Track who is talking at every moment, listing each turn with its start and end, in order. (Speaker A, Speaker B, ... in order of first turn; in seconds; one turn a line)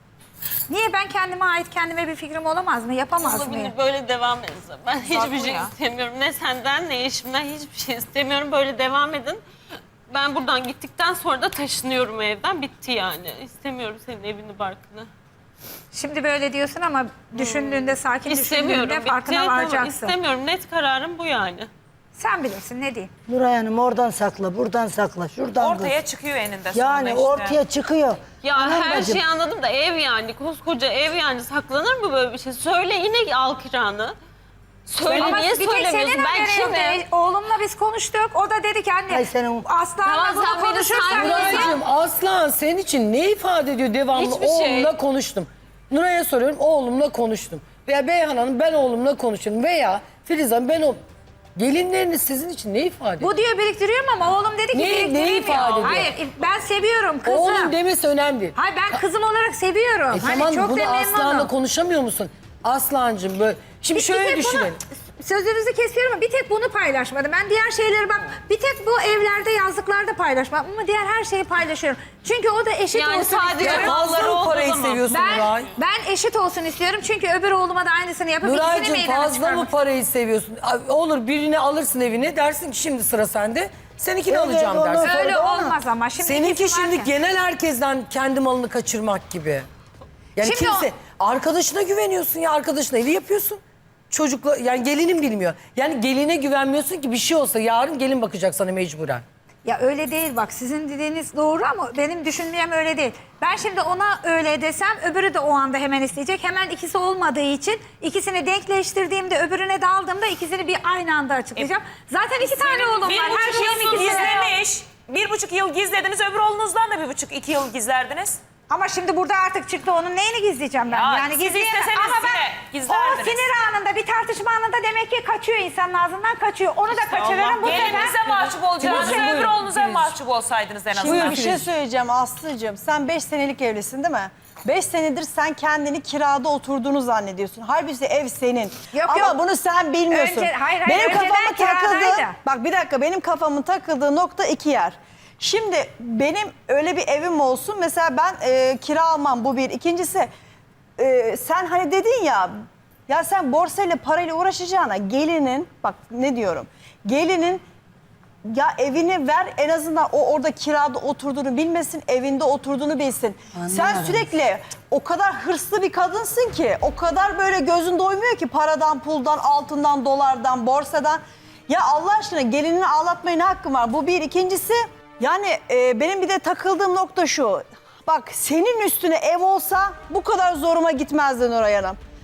Speaker A: 0.7-3.7
Speaker B: 3.2-9.4
Speaker C: 5.0-5.7
Speaker B: 10.1-15.1
Speaker A: 15.9-20.1
Speaker B: 17.3-21.7
Speaker A: 22.1-23.1
Speaker D: 23.3-26.0
Speaker C: 25.6-27.6
Speaker D: 26.7-29.2
Speaker B: 28.4-34.1
Speaker B: 34.9-37.0
Speaker C: 35.0-35.4
Speaker A: 35.2-41.8
Speaker D: 39.1-39.6
Speaker B: 40.0-41.8
Speaker E: 41.1-51.0
Speaker B: 44.1-44.9
Speaker E: 51.5-53.3
Speaker A: 53.2-57.7
Speaker E: 54.7-56.1
Speaker E: 57.2-59.0
Speaker A: 58.5-61.5
Speaker E: 60.1-64.8
Speaker A: 63.9-74.0
Speaker B: 72.9-75.1
Speaker E: 73.6-75.7
Speaker A: 75.1-79.7
Speaker E: 78.4-85.4
Speaker D: 84.3-85.8
Speaker A: 85.0-87.1
Speaker E: 86.2-89.7
Speaker E: 90.3-99.2
Speaker A: 90.4-90.9
Speaker A: 99.6-114.5
Speaker C: 112.5-118.4
Speaker A: 118.7-129.9
Speaker C: 120.9-123.5
Speaker C: 126.9-131.7
Speaker E: 128.8-129.6
Speaker A: 131.0-131.5
Speaker F: 131.0-150.3
Speaker A: 138.9-139.4
Speaker A: 140.1-142.3
Speaker F: 151.0-152.5
Speaker F: 153.1-157.6
Speaker F: 158.4-182.0
Speaker D: 163.5-164.3